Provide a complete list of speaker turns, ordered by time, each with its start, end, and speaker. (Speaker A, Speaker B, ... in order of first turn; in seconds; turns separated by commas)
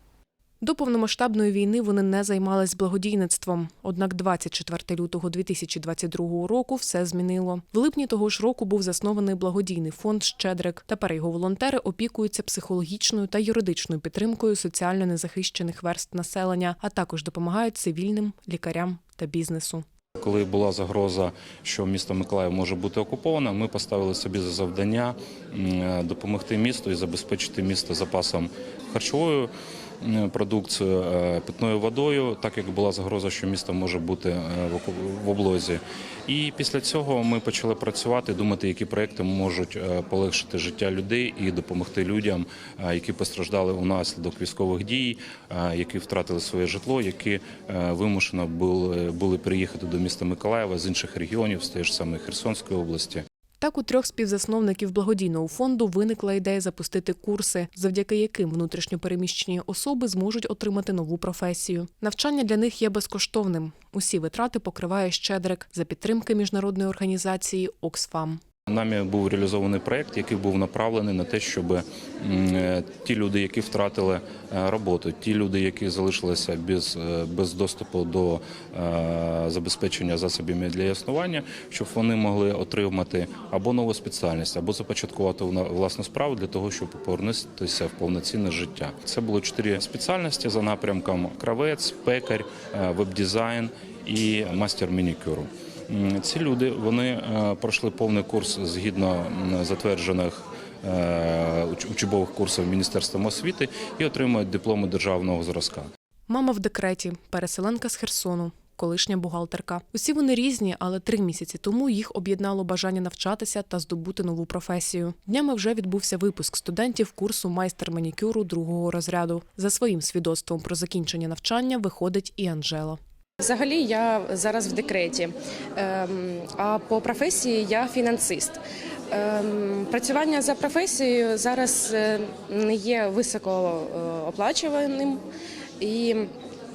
Speaker A: 0.6-19.9, Speaker B: 20.2-53.2, Speaker A: 53.6-68.4, Speaker B: 68.7-105.9, Speaker A: 106.3-123.0, Speaker C: 123.4-128.6, Speaker C: 129.1-135.2, Speaker C: 135.8-136.3